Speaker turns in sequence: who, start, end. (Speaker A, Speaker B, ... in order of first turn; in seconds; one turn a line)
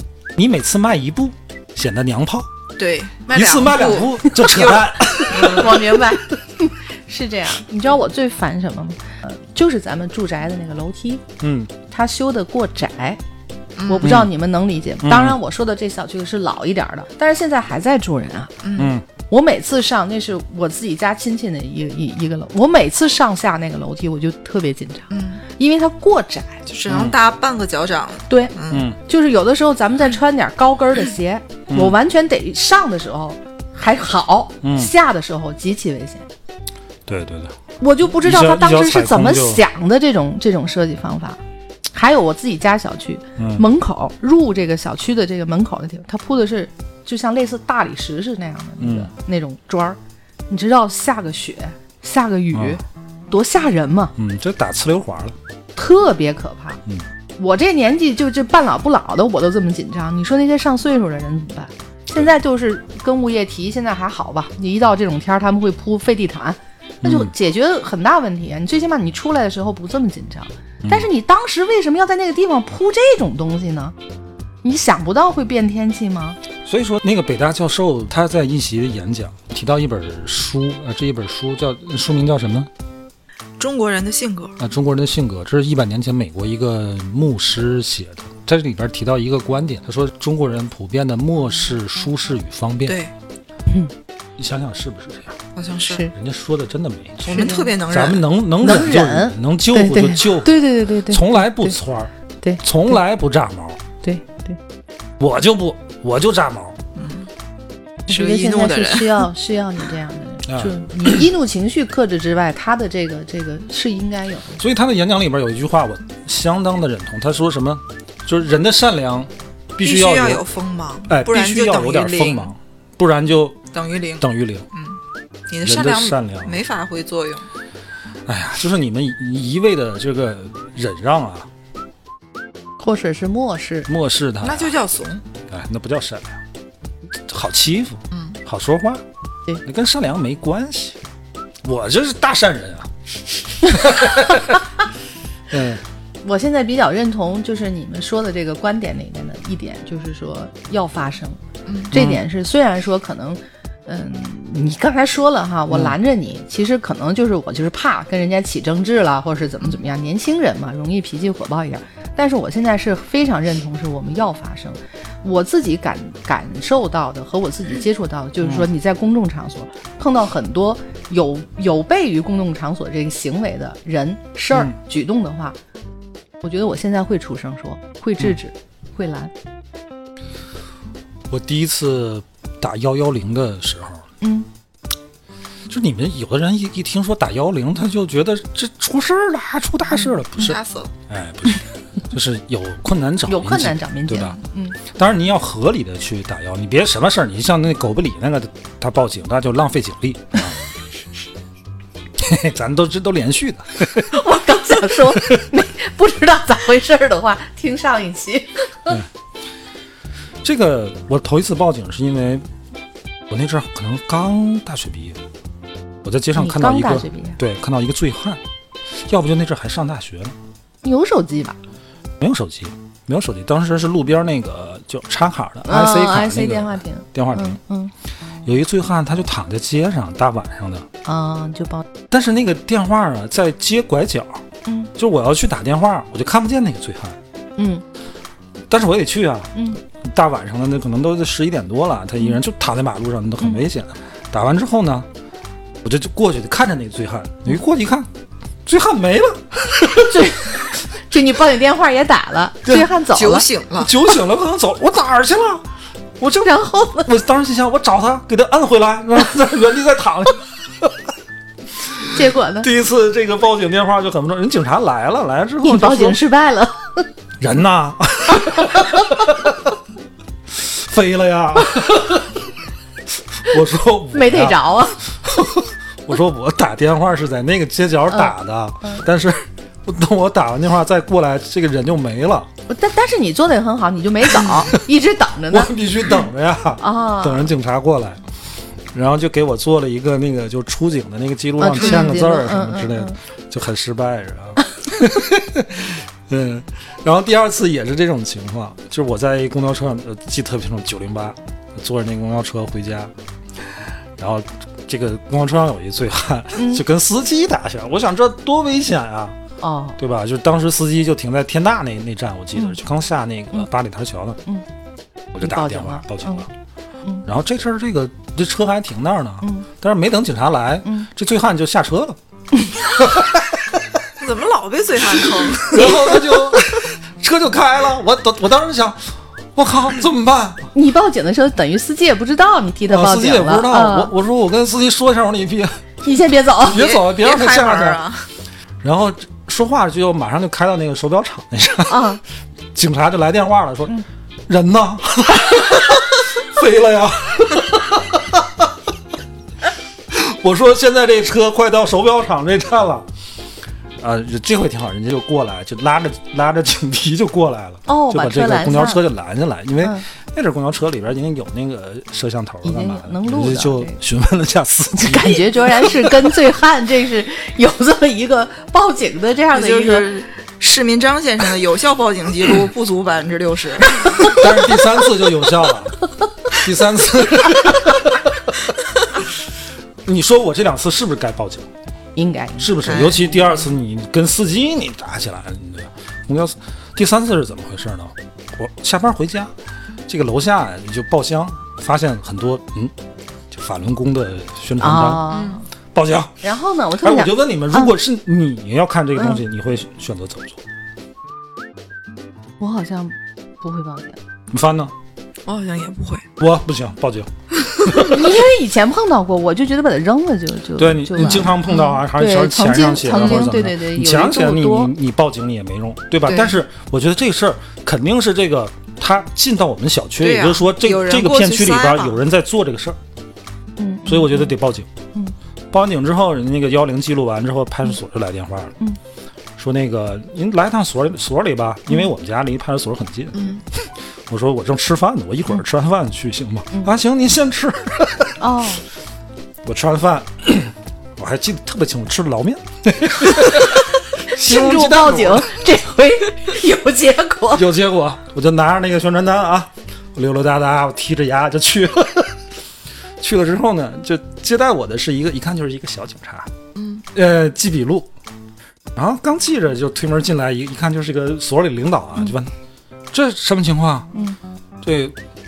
Speaker A: 0.3-2.5
Speaker B: 2.8-5.9
Speaker A: 3.3-6.0
Speaker C: 5.3-11.2
Speaker A: 11.4-11.7
Speaker C: 11.9-13.2
Speaker B: 13.8-14.2
Speaker C: 13.9-18.5
Speaker A: 14.0-14.3
Speaker A: 15.0-15.4
Speaker B: 18.6-18.9
Speaker A: 18.8-19.1
Speaker C: 19.3-26.6
Speaker B: 25.1-25.4
Speaker B: 26.7-28.9
Speaker A: 26.9-27.2
Speaker C: 28.3-36.3
Speaker A: 28.7-29.0
Speaker A: 31.7-32.0
Speaker A: 34.6-34.9
Speaker A: 37.1-37.5
Speaker C: 37.8-41.4
Speaker A: 38.1-39.6
Speaker C: 41.9-54.1
Speaker A: 43.4-43.6
Speaker A: 48.8-49.1
Speaker A: 52.5-52.8
Speaker A: 54.2-55.4
Speaker C: 55.8-56.8
Speaker C: 57.4-74.0
Speaker A: 67.0-67.3
Speaker C: 74.6-76.4
Speaker A: 76.7-82.7
Speaker B: 83.6-84.5
Speaker A: 84.6-93.0
Speaker B: 92.8-93.1
Speaker A: 94.4-95.4
Speaker B: 95.6-96.1
Speaker A: 96.1-103.8
Speaker B: 97.2-98.3
Speaker C: 97.3-97.7
Speaker C: 98.6-101.8
Speaker C: 102.4-103.0
Speaker C: 104.0-104.6
Speaker A: 105.2-106.8
Speaker B: 107.0-107.3
Speaker C: 108.1-114.6
Speaker B: 108.1-109.3
Speaker A: 110.5-111.2
Speaker A: 114.6-120.4
Speaker B: 119.8-122.5
Speaker A: 121.1-123.6
Speaker B: 123.7-127.5
Speaker A: 124.2-124.7
Speaker A: 125.6-126.6
Speaker A: 128.3-131.5
Speaker C: 132.8-133.9
Speaker A: 133.9-134.8
Speaker B: 134.4-135.2
Speaker A: 135.5-136.4
Speaker A: 137.3-139.0
Speaker B: 138.1-138.4
Speaker A: 139.6-141.0
Speaker A: 141.6-142.9
Speaker A: 143.6-144.6
Speaker A: 145.5-145.8
Speaker C: 146.2-175.6
Speaker B: 151.7-151.9
Speaker A: 151.9-152.2
Speaker A: 155.7-156.0
Speaker A: 168.4-168.7
Speaker C: 176.4-179.3
Speaker A: 181.3-184.1
Speaker C: 184.2-184.5
Speaker A: 185.7-200.6
Speaker B: 190.4-190.9
Speaker C: 193.3-194.8
Speaker A: 202.2-204.2
Speaker C: 204.0-209.0
Speaker A: 205.0-205.4
Speaker A: 210.4-212.4
Speaker A: 213.3-215.2
Speaker A: 216.0-218.4
Speaker C: 216.3-217.4
Speaker A: 219.0-220.3
Speaker C: 220.8-221.6
Speaker A: 222.2-227.6
Speaker C: 225.7-227.9
Speaker A: 228.4-230.9
Speaker C: 231.1-231.9
Speaker A: 232.1-234.4
Speaker A: 235.0-237.2
Speaker C: 237.6-237.8
Speaker A: 238.7-245.1
Speaker C: 239.6-239.8
Speaker A: 245.8-248.1
Speaker A: 248.7-250.3
Speaker C: 250.0-253.5
Speaker B: 253.1-254.0
Speaker A: 253.8-255.7
Speaker A: 256.2-261.0
Speaker C: 256.4-257.1
Speaker A: 262.0-266.2
Speaker C: 262.1-262.7
Speaker C: 265.6-267.1
Speaker A: 267.4-269.7
Speaker A: 270.5-272.5
Speaker A: 273.3-282.5
Speaker C: 274.1-275.0
Speaker C: 278.1-279.0
Speaker C: 282.7-285.7
Speaker A: 284.5-284.8
Speaker A: 285.5-288.2
Speaker C: 286.8-287.5
Speaker A: 288.9-303.1
Speaker C: 291.6-293.2
Speaker B: 291.8-292.1
Speaker A: 303.6-309.4
Speaker C: 306.6-306.8
Speaker C: 309.6-310.0
Speaker A: 310.0-314.4
Speaker A: 315.3-316.5
Speaker C: 315.4-316.4
Speaker A: 317.2-322.2
Speaker C: 319.4-319.7
Speaker A: 322.8-324.0
Speaker B: 324.2-326.1
Speaker A: 325.2-330.7
Speaker C: 325.8-326.2
Speaker C: 330.7-334.1
Speaker A: 332.9-335.8
Speaker C: 336.0-336.8
Speaker A: 336.6-338.0
Speaker B: 336.7-338.3
Speaker A: 338.8-342.2
Speaker C: 341.9-342.2
Speaker A: 342.8-344.0
Speaker A: 344.5-348.7
Speaker A: 350.1-353.1
Speaker A: 354.0-366.3
Speaker C: 357.9-359.0
Speaker C: 362.6-364.0
Speaker C: 364.9-370.1
Speaker B: 369.5-374.4
Speaker A: 374.3-378.6
Speaker A: 380.1-381.7
Speaker C: 382.2-383.0
Speaker A: 382.6-389.5
Speaker B: 382.8-383.6
Speaker A: 390.1-392.9
Speaker A: 393.5-395.2
Speaker C: 394.8-395.6
Speaker B: 395.3-395.6
Speaker A: 395.9-396.4
Speaker C: 396.4-397.9
Speaker A: 397.0-400.6
Speaker C: 402.6-404.2
Speaker A: 404.5-404.9
Speaker B: 405.4-406.3
Speaker A: 406.4-407.3
Speaker B: 407.6-407.9
Speaker A: 407.9-408.3
Speaker C: 408.0-414.9
Speaker A: 410.8-423.0
Speaker B: 411.2-412.0
Speaker B: 413.2-413.4
Speaker B: 416.3-416.5
Speaker B: 420.2-422.2
Speaker C: 423.8-424.5
Speaker A: 424.1-424.9
Speaker A: 425.7-428.8
Speaker A: 429.6-438.4
Speaker B: 433.4-433.6
Speaker C: 438.4-438.8
Speaker A: 439.6-445.5
Speaker C: 444.3-447.7
Speaker A: 447.5-452.4
Speaker A: 453.2-456.5
Speaker B: 456.8-457.1
Speaker A: 457.1-458.1
Speaker A: 458.9-462.5
Speaker A: 463.1-464.1
Speaker A: 464.8-465.2